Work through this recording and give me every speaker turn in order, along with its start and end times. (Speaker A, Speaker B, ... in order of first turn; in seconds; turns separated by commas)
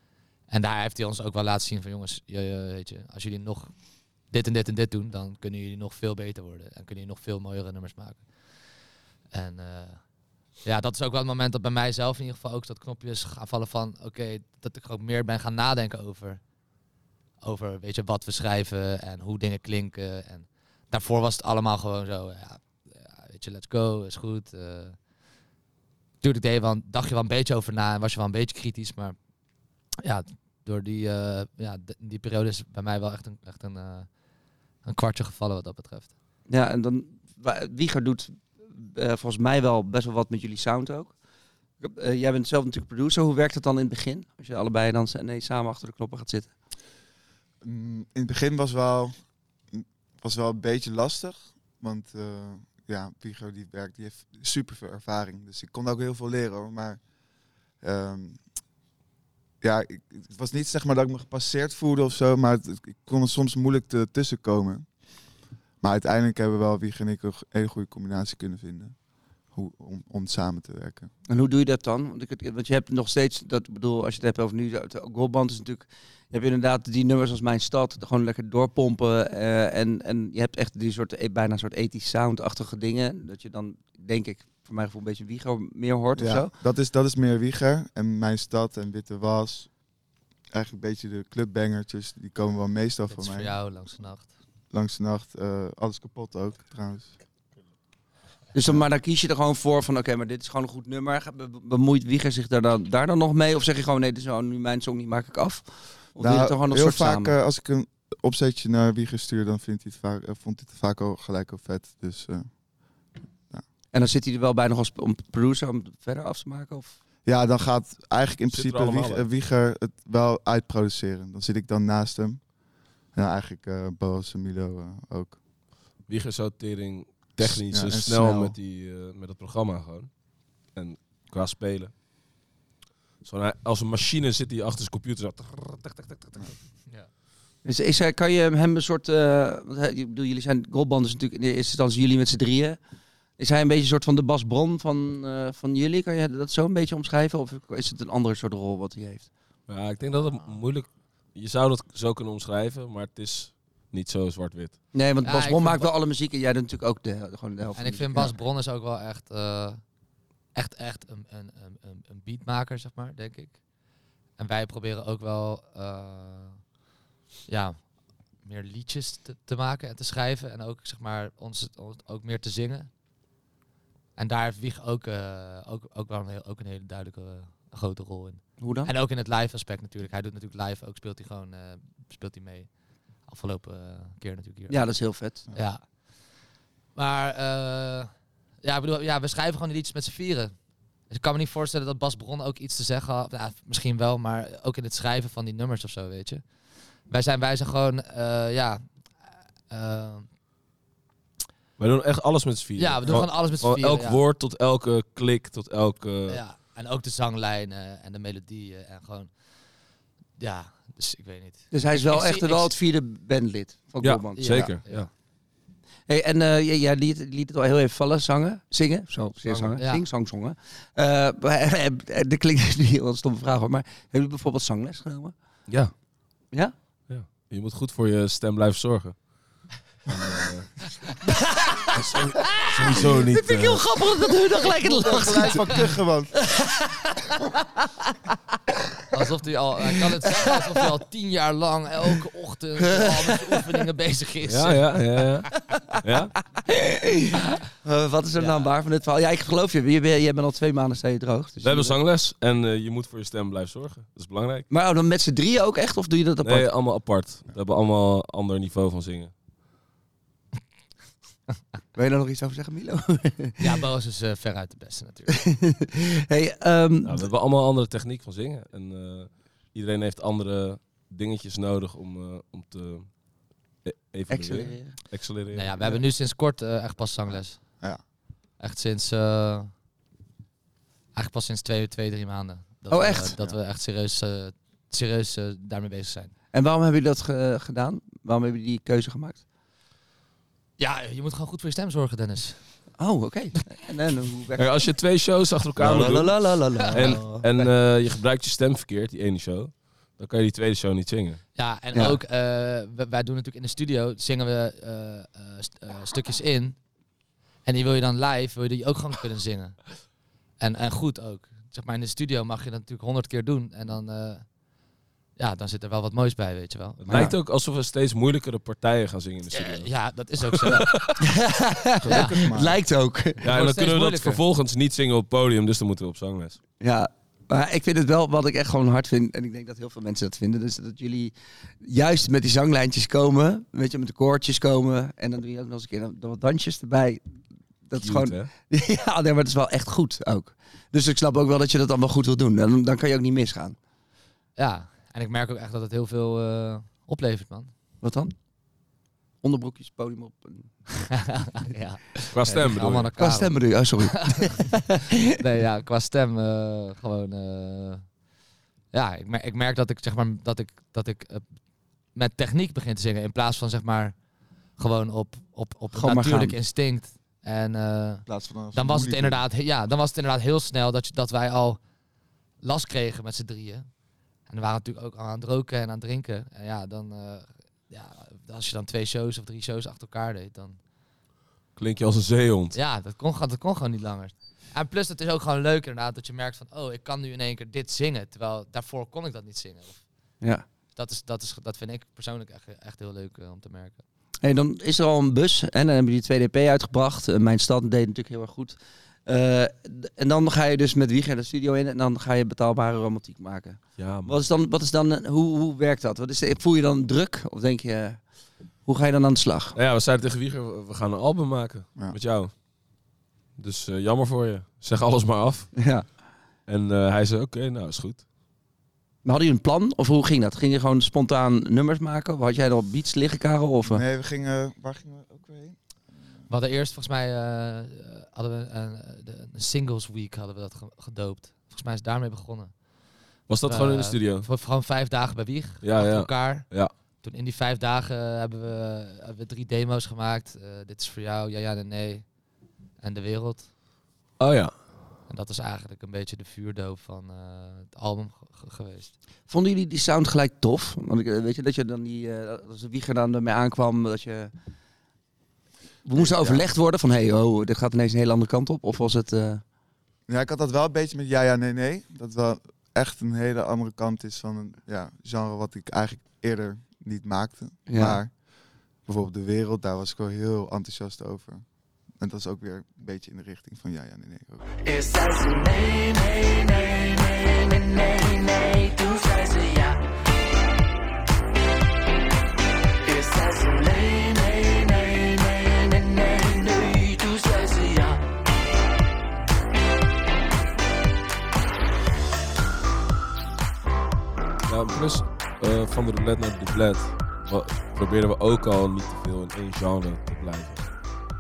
Speaker A: 0.5-3.7, Speaker A: 4.3-8.2, Speaker A: 9.3-10.0, Speaker A: 10.6-16.4, Speaker A: 17.4-25.0, Speaker A: 26.2-29.2, Speaker A: 30.0-34.1, Speaker A: 34.8-36.1, Speaker B: 36.5-41.1, Speaker B: 41.8-46.5, Speaker C: 47.6-49.1, Speaker C: 49.7-57.0, Speaker C: 57.8-58.4, Speaker C: 59.6-64.9, Speaker C: 65.8-69.0, Speaker C: 69.5-71.1, Speaker B: 71.3-86.5, Speaker C: 86.2-89.7, Speaker C: 90.5-93.6, Speaker A: 93.1-94.3, Speaker C: 94.7-97.1, Speaker B: 98.5-107.3, Speaker C: 106.2-112.5, Speaker B: 113.9-117.0, Speaker C: 117.2-122.4, Speaker D: 118.5-119.3, Speaker C: 123.1-125.4, Speaker D: 126.1-130.1, Speaker C: 127.4-128.6, Speaker D: 130.7-131.9, Speaker D: 133.2-136.5, Speaker B: 137.6-142.8, Speaker B: 143.4-149.3, Speaker D: 149.7-154.8, Speaker B: 154.9-158.3, Speaker A: 155.2-155.9, Speaker A: 157.8-159.8, Speaker A: 160.6-163.6, Speaker A: 164.4-166.6, Speaker A: 167.5-167.8, Speaker A: 168.4-172.9, Speaker A: 174.2-182.7, Speaker B: 178.6-178.9, Speaker A: 183.3-185.8, Speaker B: 184.7-185.4, Speaker A: 186.9-188.1, Speaker A: 188.6-190.5, Speaker A: 191.1-196.4, Speaker A: 197.1-198.8, Speaker A: 199.7-200.3, Speaker D: 201.8-206.4, Speaker A: 202.8-204.2, Speaker A: 206.3-209.3, Speaker A: 210.4-212.7, Speaker B: 211.7-214.7, Speaker D: 214.0-215.1, Speaker A: 214.4-215.1, Speaker B: 216.1-225.3, Speaker D: 219.4-219.8, Speaker A: 219.8-220.1, Speaker D: 227.1-229.2, Speaker C: 230.1-230.5, Speaker D: 230.3-230.7, Speaker D: 231.9-233.9, Speaker B: 232.5-235.9, Speaker C: 234.8-236.4, Speaker B: 236.6-237.0, Speaker A: 239.1-245.0, Speaker B: 239.9-240.7, Speaker B: 242.9-243.6, Speaker D: 244.5-246.4, Speaker B: 246.6-252.0, Speaker A: 248.3-248.7, Speaker D: 251.6-254.7, Speaker B: 254.7-256.7, Speaker D: 256.4-259.3, Speaker B: 261.9-263.6, Speaker A: 263.6-265.4, Speaker B: 265.4-267.3, Speaker D: 267.0-273.1, Speaker D: 273.8-275.7, Speaker B: 274.3-274.9, Speaker A: 275.5-277.6, Speaker C: 277.3-278.0, Speaker A: 278.6-279.7, Speaker A: 281.1-286.3, Speaker B: 282.9-283.3, Speaker B: 286.5-289.4, Speaker A: 290.8-292.6, Speaker B: 293.0-294.8, Speaker D: 294.6-301.4, Speaker B: 295.8-297.7, Speaker A: 296.8-297.2, Speaker A: 301.6-306.8, Speaker A: 307.6-309.8, Speaker A: 310.6-314.5, Speaker A: 315.4-317.2, Speaker D: 317.0-319.9, Speaker B: 317.1-317.4, Speaker A: 319.5-320.9, Speaker D: 320.5-321.2, Speaker B: 321.2-323.4, Speaker C: 322.0-322.8, Speaker A: 322.1-322.4, Speaker D: 323.4-326.6, Speaker A: 323.4-324.4, Speaker B: 326.8-337.2, Speaker B: 337.9-343.8, Speaker D: 338.0-338.5, Speaker A: 344.6-347.7, Speaker B: 348.0-348.3, Speaker B: 349.4-350.7, Speaker A: 351.0-358.0, Speaker D: 352.3-353.1, Speaker B: 353.2-355.2, Speaker A: 358.9-361.4, Speaker A: 362.1-364.1, Speaker A: 364.8-371.8, Speaker B: 365.9-366.6, Speaker C: 368.3-369.4, Speaker A: 372.6-373.9, Speaker A: 374.5-380.8, Speaker D: 381.8-382.8, Speaker A: 382.7-390.0, Speaker A: 390.9-394.0, Speaker B: 394.4-408.2, Speaker D: 404.0-404.4, Speaker B: 408.9-409.8, Speaker D: 409.8-412.5, Speaker D: 413.6-415.8, Speaker B: 415.8-416.1, Speaker D: 416.7-418.2, Speaker B: 419.2-424.0, Speaker C: 423.8-425.8, Speaker A: 426.5-432.7, Speaker D: 433.5-434.5, Speaker A: 433.7-436.7, Speaker D: 435.8-436.9, Speaker A: 437.2-442.3, Speaker A: 443.0-443.7, Speaker D: 444.4-444.7, Speaker A: 445.3-449.1, Speaker B: 449.5-454.5, Speaker B: 456.1-459.6, Speaker C: 456.1-456.7, Speaker C: 460.3-468.3, Speaker B: 467.9-468.2, Speaker C: 469.1-474.6, Speaker E: 474.9-480.0, Speaker E: 483.1-488.2, Speaker D: 494.6-500.9